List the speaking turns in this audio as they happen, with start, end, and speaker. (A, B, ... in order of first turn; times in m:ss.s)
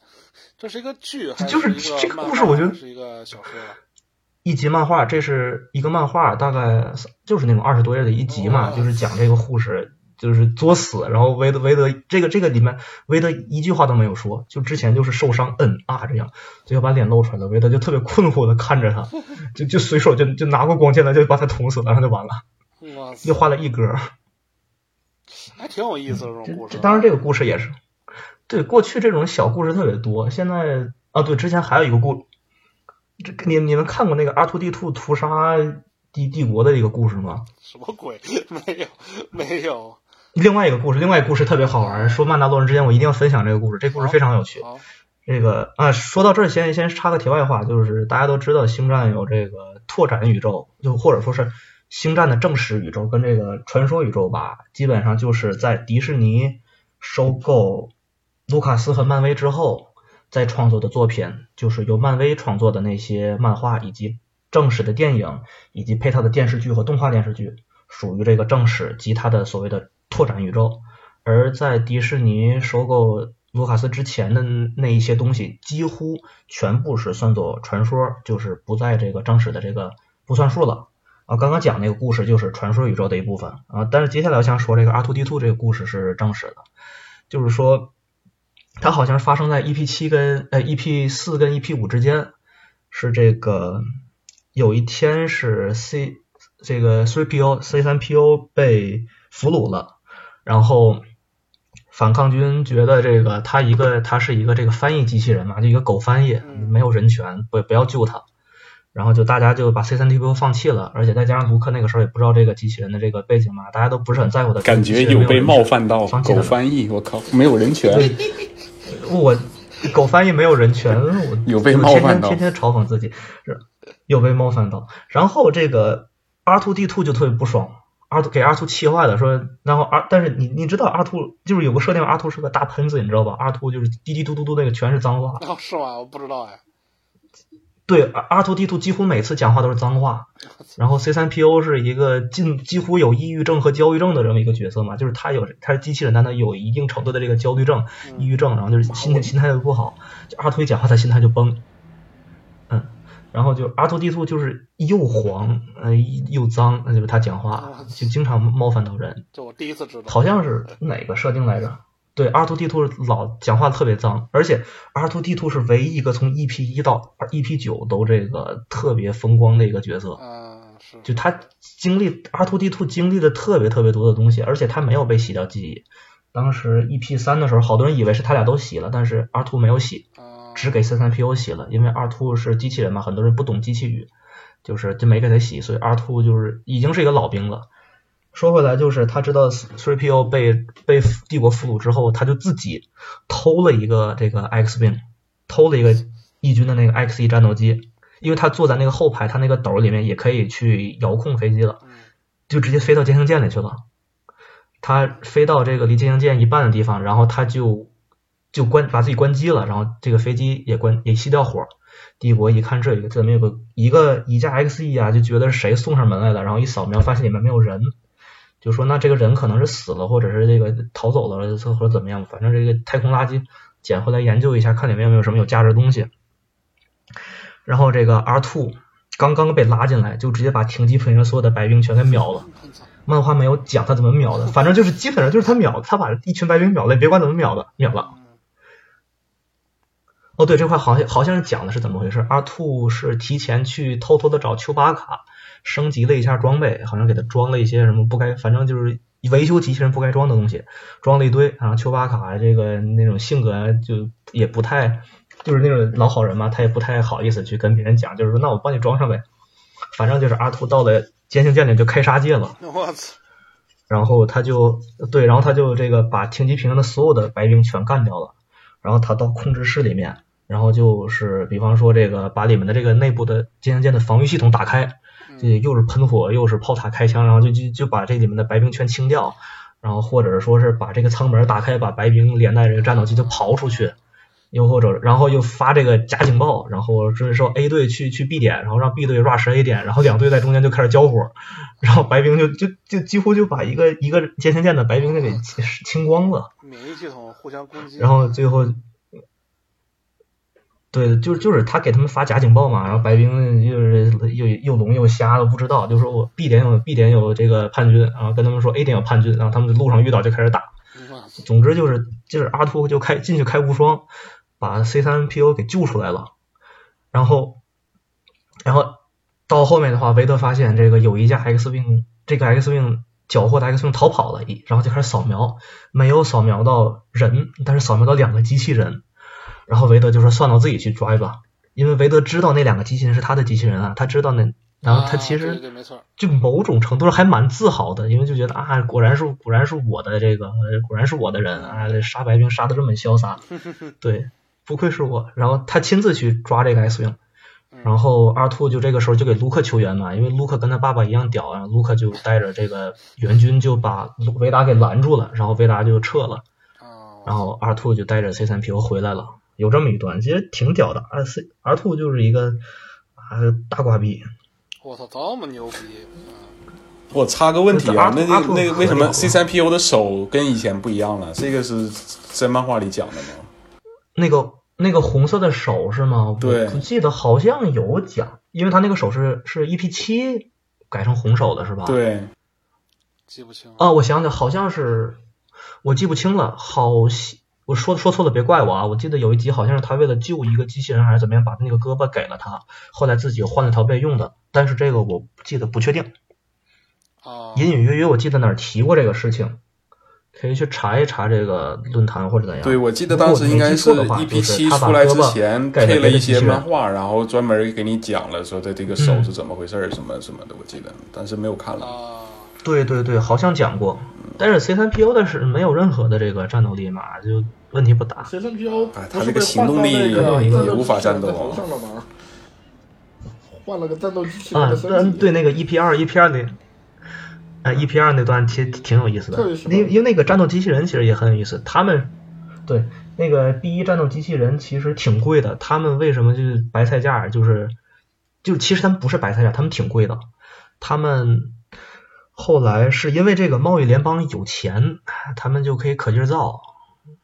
0:00.6-0:03.8 A
0:01.4-0:02.8 B
0:04.4-0:22.4 B
0:08.3-0:09.1 A
0:22.8-0:23.4 A
0:23.2-0:24.1 B
0:25.3-0:27.1 A
0:26.1-0:27.8 B
0:28.5-0:32.3 B
0:33.2-0:37.5 B
0:37.6-0:40.0 A
0:40.4-0:44.7 B
0:41.8-0:42.3 A
0:43.9-0:44.8 A
0:45.2-0:57.9 B
0:58.5-1:26.6 B
1:27.3-1:27.9 B
1:28.8-1:32.3 B
1:32.9-1:33.8 B
1:34.5-1:41.0 B
1:41.9-1:48.2 B
1:46.4-1:46.8 A
1:48.9-1:56.6 B
1:54.6-1:58.3 C
1:57.9-1:58.3 B
1:58.8-2:15.4 B
2:01.5-2:02.5 C
2:15.4-2:16.6 A
2:17.9-2:31.6 B
2:28.0-2:28.3 A
2:28.8-2:29.3 D
2:32.7-2:39.2 B
2:37.5-2:38.1 A
2:39.3-2:40.7 A
2:40.1-2:50.2 B
2:50.2-2:51.4 A
2:51.0-3:04.1 B
3:00.2-3:00.9 A
3:04.6-3:07.7 B
3:08.3-3:21.8 B
3:21.8-3:22.1 A
3:22.5-3:23.8 B
3:24.8-3:27.9 B
3:28.5-3:37.9 B
3:38.6-3:46.1 B
3:47.7-3:52.5 B
3:52.4-3:52.9 A
3:53.1-3:58.1 B
3:57.9-3:58.4 A
4:00.4-4:19.2 B
4:19.9-4:22.6 B
4:22.6-4:23.2 A
4:23.9-4:44.0 B
4:35.3-4:35.7 A
4:43.0-4:44.0 A
4:44.5-4:56.5 B
4:56.6-4:58.4 A
4:58.0-4:58.8 B
5:00.9-5:10.7 B
5:10.9-5:11.4 A
5:11.4-5:14.1 B
5:14.6-5:16.3 B
5:17.1-5:17.6 B
5:18.6-5:29.0 B
5:29.7-5:35.6 B
5:34.8-5:36.1 A
5:36.2-5:43.5 B
5:41.5-5:42.0 A
5:43.6-5:43.9 A
5:44.0-5:47.2 B
5:47.7-5:48.0 A
5:47.8-5:56.4 B
5:56.8-5:57.5 A
5:57.2-6:02.6 B
6:03.2-6:04.3 B
6:04.8-6:06.6 A
6:07.1-6:13.5 C
6:07.7-6:09.4 B
6:14.2-6:22.0 B
6:16.4-6:16.8 C
6:21.8-6:22.3 C
6:23.3-6:23.9 A
6:23.8-6:25.2 B
6:25.8-6:36.1 B
6:37.2-6:37.8 A
6:37.5-6:39.6 B
6:40.3-6:46.7 B
6:42.6-6:52.0 C
6:49.0-6:49.3 B
6:51.8-6:52.5 A
6:52.6-6:58.3 B
6:58.2-7:02.1 D
6:58.6-6:59.0 A
6:58.9-7:01.7 C
7:00.0-7:00.9 B
7:03.5-7:05.3 D
7:04.5-7:06.6 B
7:07.6-7:12.1 B
7:09.3-7:10.0 D
7:12.7-7:17.8 B
7:18.4-7:20.3 B
7:20.8-7:21.6 B
7:22.4-7:26.7 B